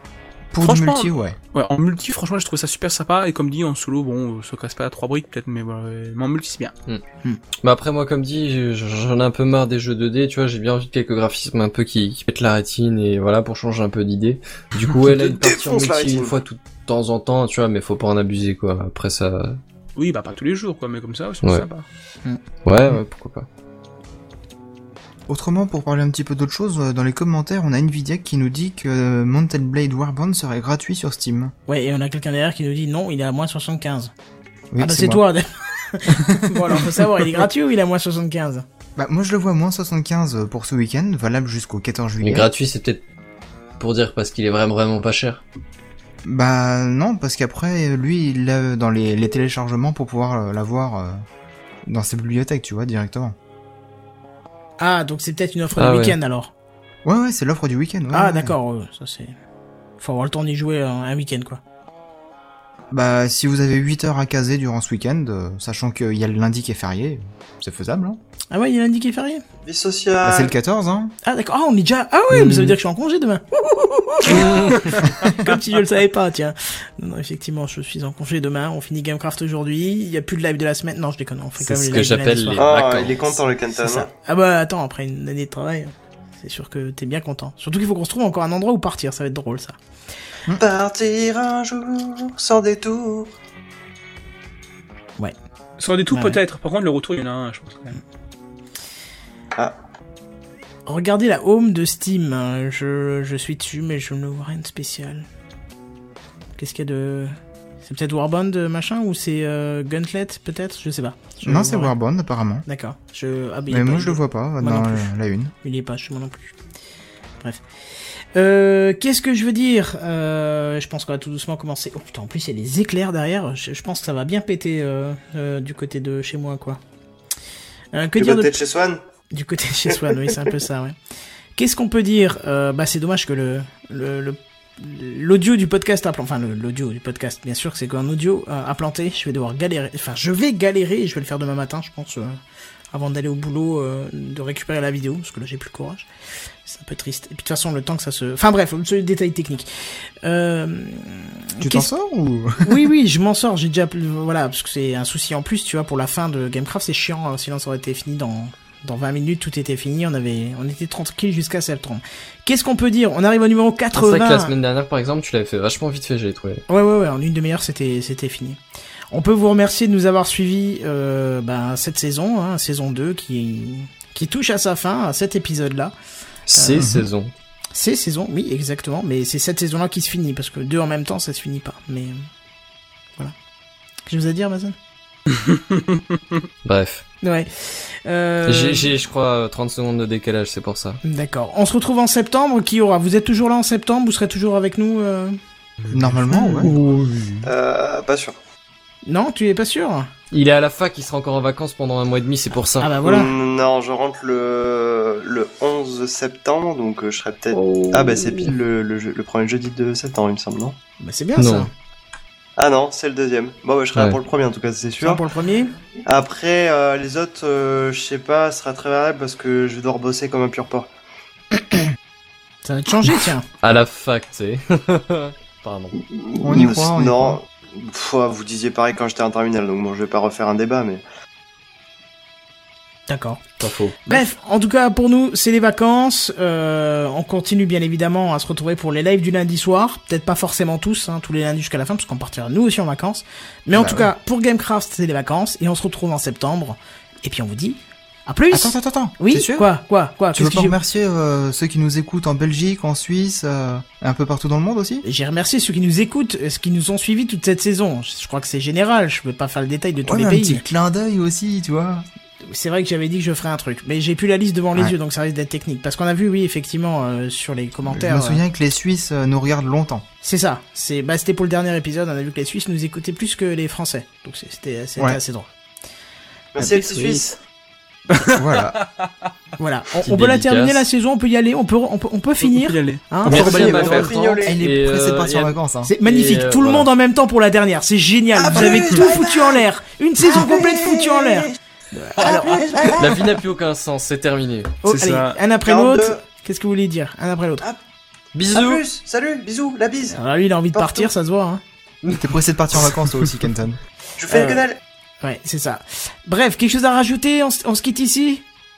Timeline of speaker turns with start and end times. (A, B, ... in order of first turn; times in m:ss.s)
0:00.5-0:01.4 A
0:00.6-0:06.7 B
0:07.6-0:19.6 C
0:15.2-0:16.4 D
0:20.0-0:21.8 B
0:22.6-0:23.5 C
0:25.3-0:31.5 A
0:31.7-0:34.1 E
0:34.7-0:35.3 A
0:34.8-0:38.6 E
0:36.1-0:36.8 A
0:39.0-0:42.5 A
0:42.2-0:43.0 C
0:43.8-0:45.4 C
0:46.2-0:51.2 A
0:51.8-0:53.4 A
0:54.8-0:56.5 E
0:55.8-0:56.2 C
0:57.0-0:58.6 A
0:58.1-0:59.4 E
1:00.0-1:01.6 E
1:02.9-1:08.2 A
1:08.5-1:09.4 E
1:09.6-1:10.5 D
1:10.2-1:11.1 A
1:11.2-1:22.6 E
1:12.3-1:12.8 C
1:14.4-1:14.7 C
1:14.7-1:15.0 B
1:21.6-1:23.4 C
1:22.6-1:24.1 D
1:23.8-1:29.8 E
1:30.6-1:33.3 D
1:35.8-1:38.0 B
1:36.1-1:36.4 E
1:40.9-1:45.3 E
1:46.6-1:51.9 E
1:51.4-1:52.6 A
1:52.6-1:55.1 E
1:53.7-1:55.5 A
1:55.6-1:56.6 E
1:58.3-2:06.8 E
2:07.9-2:08.6 E
2:08.2-2:09.0 D
2:09.3-2:11.0 E
2:11.6-2:22.4 E
2:22.9-2:26.1 E
2:26.6-2:31.9 E
2:31.6-2:32.9 A
2:32.6-2:44.5 E
2:43.9-2:46.6 C
2:46.7-2:48.6 E
2:49.1-2:55.9 E
2:56.5-2:57.3 C
2:56.8-2:57.1 A
2:57.7-3:02.3 E
3:04.1-3:04.7 E
3:05.3-3:06.4 B
3:06.6-3:07.0 C
3:07.2-3:08.9 E
3:08.4-3:11.0 C
3:11.0-3:15.4 E
3:15.9-3:16.7 A
3:16.3-3:16.7 E
3:17.4-3:18.4 D
3:19.1-3:20.1 E
3:20.3-3:22.9 C
3:22.8-3:23.3 E
3:23.0-3:30.8 D
3:27.5-3:28.5 C
3:31.0-3:31.7 E
3:31.4-3:31.7 C
3:32.6-3:35.2 D
3:35.0-3:35.7 E
3:36.1-3:40.9 D
3:42.6-3:43.5 E
3:43.6-3:46.0 C
3:46.1-3:51.0 D
3:46.4-3:47.4 A
3:53.1-3:53.4 E
3:53.6-3:54.2 C
3:54.1-4:10.8 E
4:03.7-4:04.1 A
4:08.5-4:09.7 A
4:10.3-4:15.0 A
4:15.0-4:20.6 E
4:20.0-4:22.1 A
4:22.4-4:28.4 E
4:27.9-4:30.0 A
4:30.2-4:35.5 E
4:36.6-4:37.4 D
4:36.6-4:37.3 C
4:38.1-4:39.1 B
4:38.4-4:38.8 A
4:39.6-4:43.6 E
4:40.0-4:40.8 C
4:42.4-4:44.1 B
4:43.3-4:45.9 A
4:43.3-4:46.9 C
4:43.6-4:44.6 D
4:45.8-4:53.0 E
4:48.4-4:49.6 D
4:50.2-4:51.5 D
4:52.2-4:53.4 D
4:53.0-4:54.7 C
4:54.8-4:57.6 E
4:54.8-4:55.4 B
4:55.6-4:56.2 D
4:58.3-4:58.8 C
4:58.5-5:00.2 D
5:00.1-5:01.6 E
5:00.7-5:01.1 D
5:02.2-5:03.8 A
5:04.2-5:04.8 D
5:04.3-5:04.6 E
5:05.2-5:08.4 E